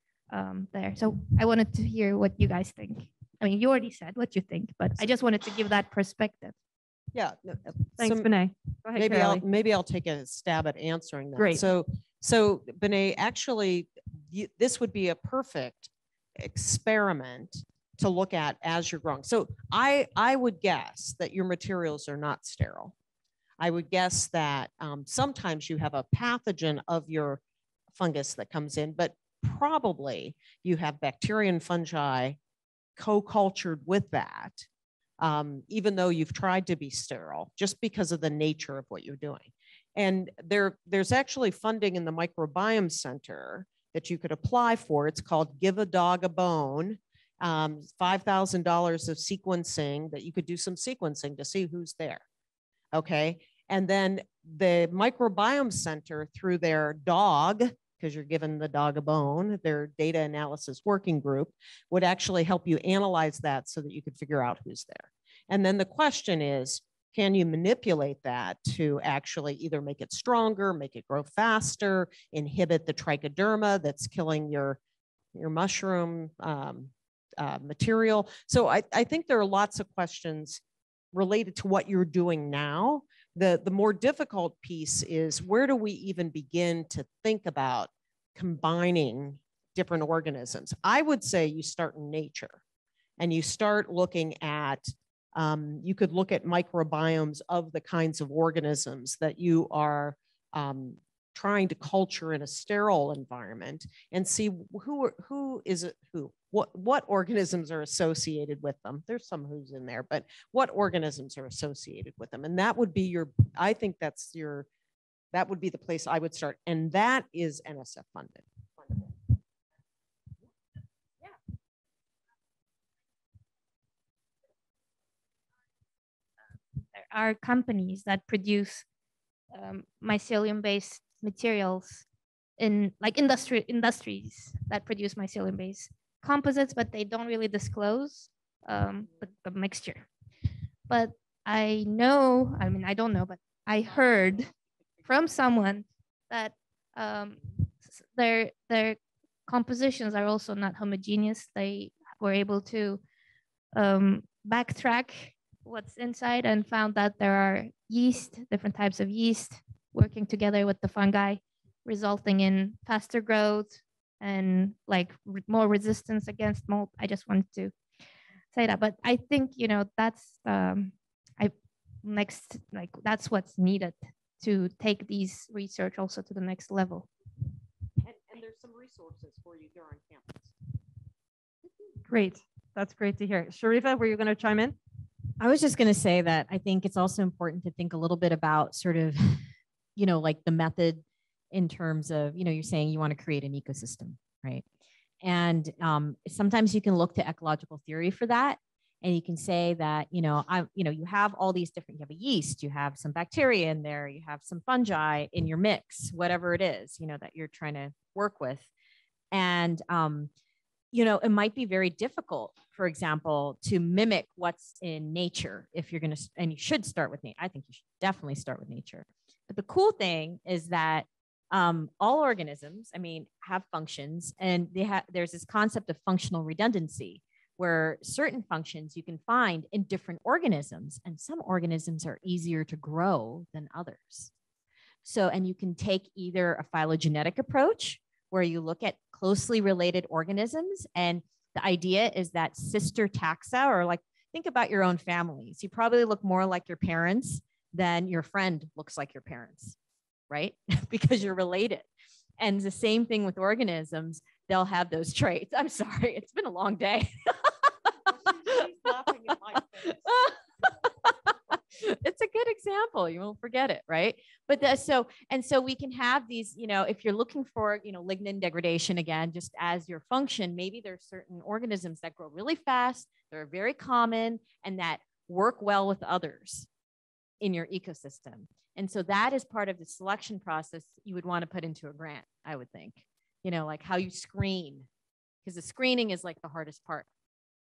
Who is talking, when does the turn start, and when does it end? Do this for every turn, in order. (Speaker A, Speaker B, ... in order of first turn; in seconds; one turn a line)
Speaker A: 0.3-6.5
Speaker B: 7.1-8.3
Speaker C: 8.0-9.4
Speaker B: 8.9-22.9
Speaker C: 11.3-11.6
Speaker B: 23.6-27.4
Speaker B: 27.9-32.4
Speaker B: 33.0-34.7
Speaker B: 35.2-52.2
Speaker B: 52.9-74.8
Speaker B: 75.3-80.6
Speaker B: 81.1-92.6
Speaker B: 93.2-114.7
Speaker B: 115.3-119.1
Speaker A: 126.9-128.8
Speaker A: 129.5-132.0
Speaker A: 132.6-140.0
Speaker A: 140.9-144.5
Speaker A: 145.0-153.0
Speaker A: 153.7-167.7
Speaker A: 168.5-177.1
Speaker B: 178.0-180.5
Speaker C: 182.1-184.8
Speaker D: 185.4-189.4
Speaker D: 190.0-194.6
Speaker D: 195.2-208.7
Speaker D: 209.3-210.3
Speaker D: 210.9-234.3
Speaker D: 235.0-249.8
Speaker D: 250.3-251.9
Speaker D: 252.4-257.9
Speaker B: 258.3-259.9
Speaker D: 259.8-260.3
Speaker D: 261.8-276.7
Speaker D: 277.4-284.9
Speaker D: 285.4-287.1